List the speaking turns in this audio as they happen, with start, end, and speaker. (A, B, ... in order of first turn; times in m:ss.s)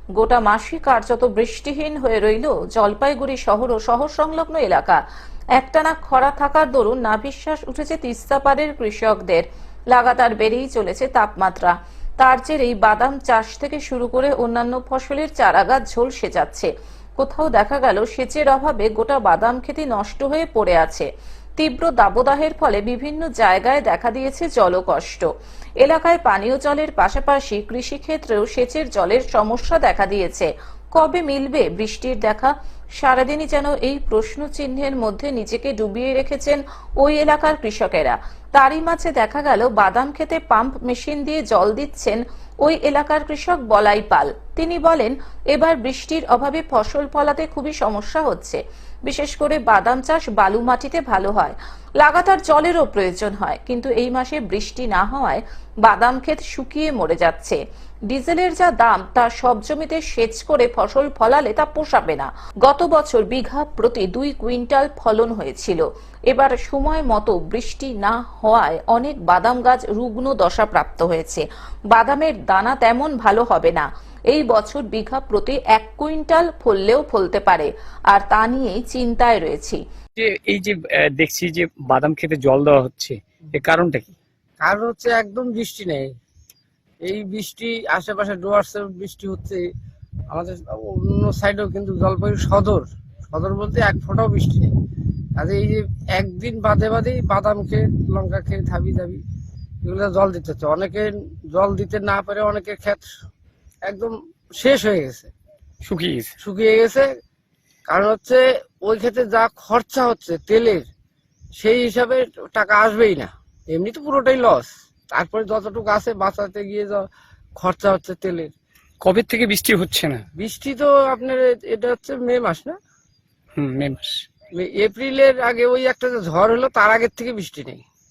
0:00.2-0:05.0 A
0:05.6-0:21.1 A
0:21.6-0:25.3 A
0:25.8-1:19.8 A
1:20.2-1:24.1 B
1:24.6-1:26.1 C
1:27.0-1:29.7 C
1:30.3-1:34.7 C
1:35.4-1:39.2 C
1:39.8-1:43.1 C
1:43.8-1:45.3 C
1:45.8-1:46.3 B
1:46.4-1:47.1 C
1:47.9-1:50.9 C
1:51.6-1:57.0 C
1:57.6-1:58.5 C
1:59.0-2:00.2 B
2:00.4-2:02.8 C
2:03.6-2:04.2 B
2:04.6-2:07.8 C